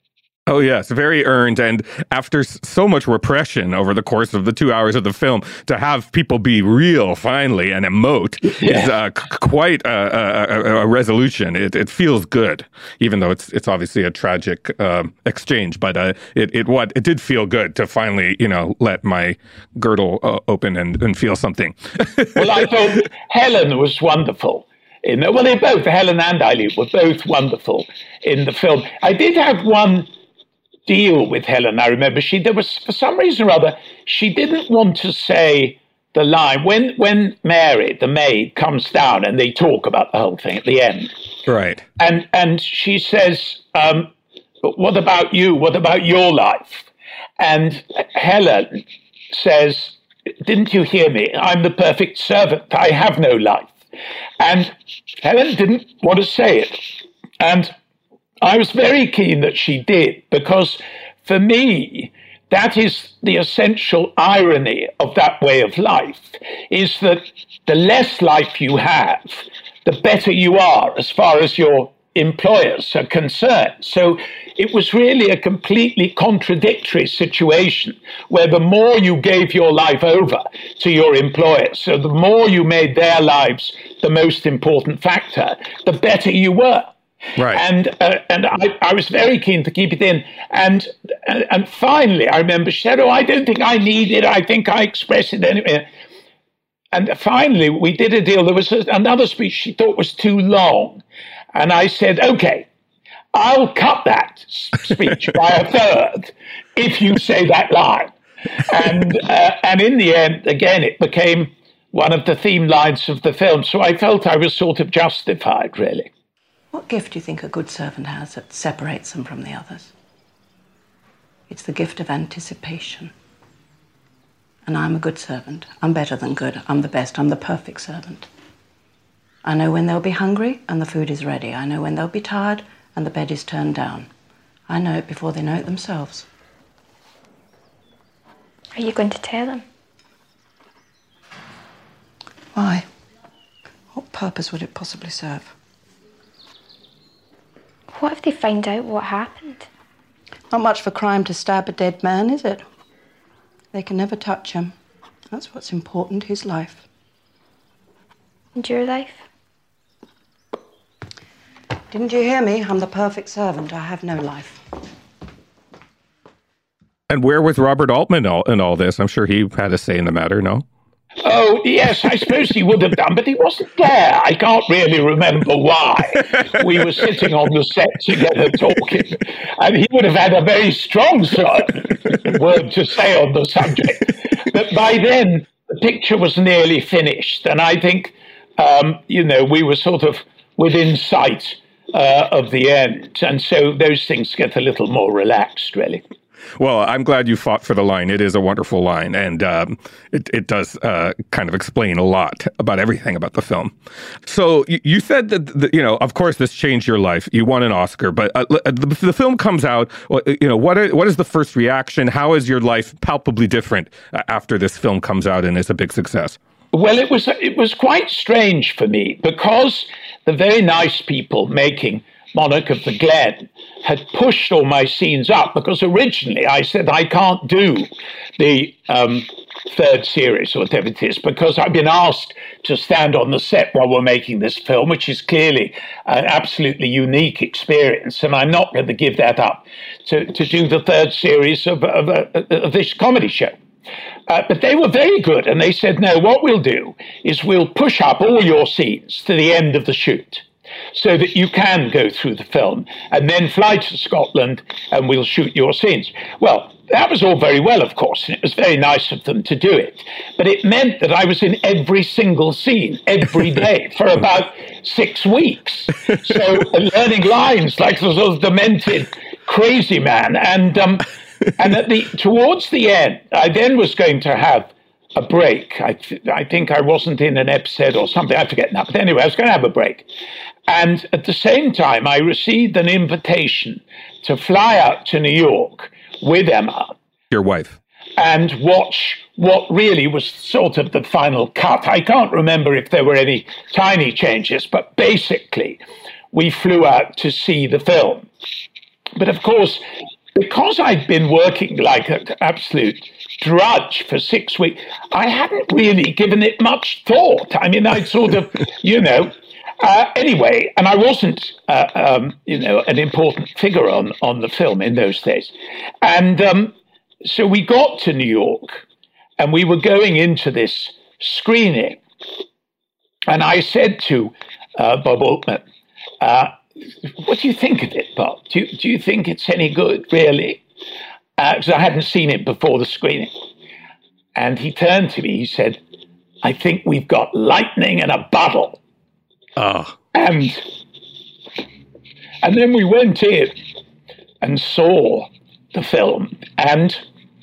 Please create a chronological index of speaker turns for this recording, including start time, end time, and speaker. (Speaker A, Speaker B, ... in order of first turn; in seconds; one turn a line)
Speaker A: 0.5-22.7
Speaker B: 8.4-8.9
Speaker B: 22.4-30.1
Speaker B: 30.9-41.1
Speaker A: 41.5-41.9
Speaker B: 42.0-44.1
Speaker B: 44.6-53.8
Speaker B: 54.4-57.7
Speaker B: 58.4-86.9
Speaker A: 87.4-87.6
Speaker B: 87.5-95.9
Speaker B: 96.9-101.0
Speaker B: 101.5-102.7
Speaker B: 103.3-108.1
Speaker B: 108.7-116.1
Speaker C: 116.7-119.9
Speaker C: 121.5-123.1
Speaker C: 124.7-128.3
Speaker C: 129.4-134.1
Speaker C: 134.7-136.3
Speaker D: 138.8-139.7
Speaker C: 142.6-142.9
Speaker C: 143.9-145.5
Speaker D: 147.9-149.7
Speaker C: 150.5-152.7
Speaker C: 153.7-154.7
Speaker C: 155.3-156.8
Speaker D: 158.6-159.2
Speaker C: 161.9-164.6
Speaker A: 167.1-170.7
Speaker B: 171.2-196.0
Speaker A: 196.6-203.7
Speaker A: 204.2-216.4
Speaker B: 216.7-243.6
Speaker B: 244.3-280.1
Speaker B: 280.7-286.9
Speaker A: 287.3-287.8
Speaker B: 288.2-295.8
Speaker B: 296.3-298.3
Speaker B: 299.2-299.8
Speaker B: 300.4-318.9
Speaker B: 319.4-322.0
Speaker B: 323.3-325.6
Speaker B: 326.2-326.5
Speaker B: 327.2-330.6
Speaker B: 331.4-333.3
Speaker B: 334.4-335.8
Speaker B: 336.4-338.8
Speaker A: 339.6-340.0
Speaker B: 340.1-340.7
Speaker B: 342.4-343.6
Speaker B: 344.4-347.0